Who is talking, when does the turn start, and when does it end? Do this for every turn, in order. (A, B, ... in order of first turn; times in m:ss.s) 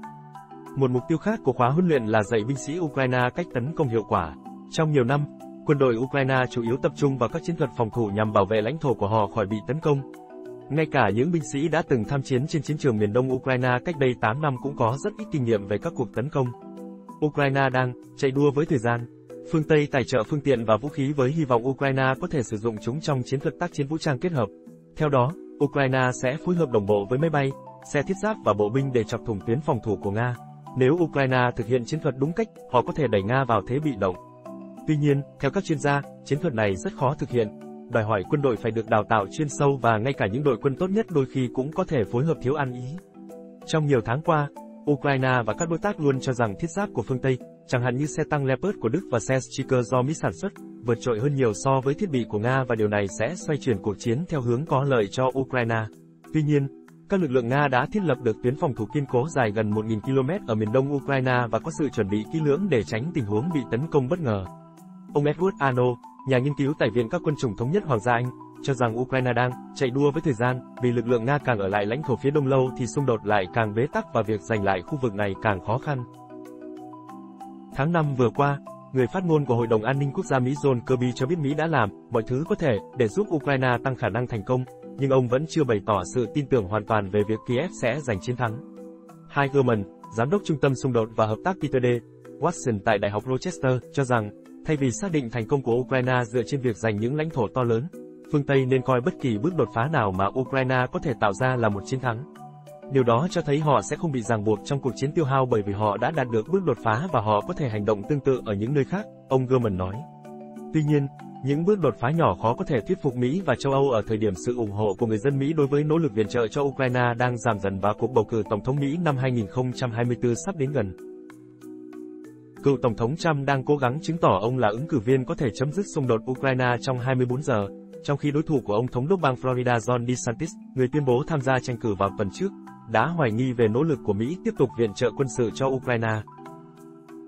0:00.8-0:10.0 A
0:10.7-0:16.5 A
0:17.2-0:34.2 A
0:34.9-0:43.0 A
0:43.7-1:04.5 A
1:05.1-1:16.1 A
1:17.7-1:28.6 A
1:29.3-1:42.3 A
1:42.9-1:50.0 A
1:50.7-2:01.0 A
2:02.6-2:16.2 A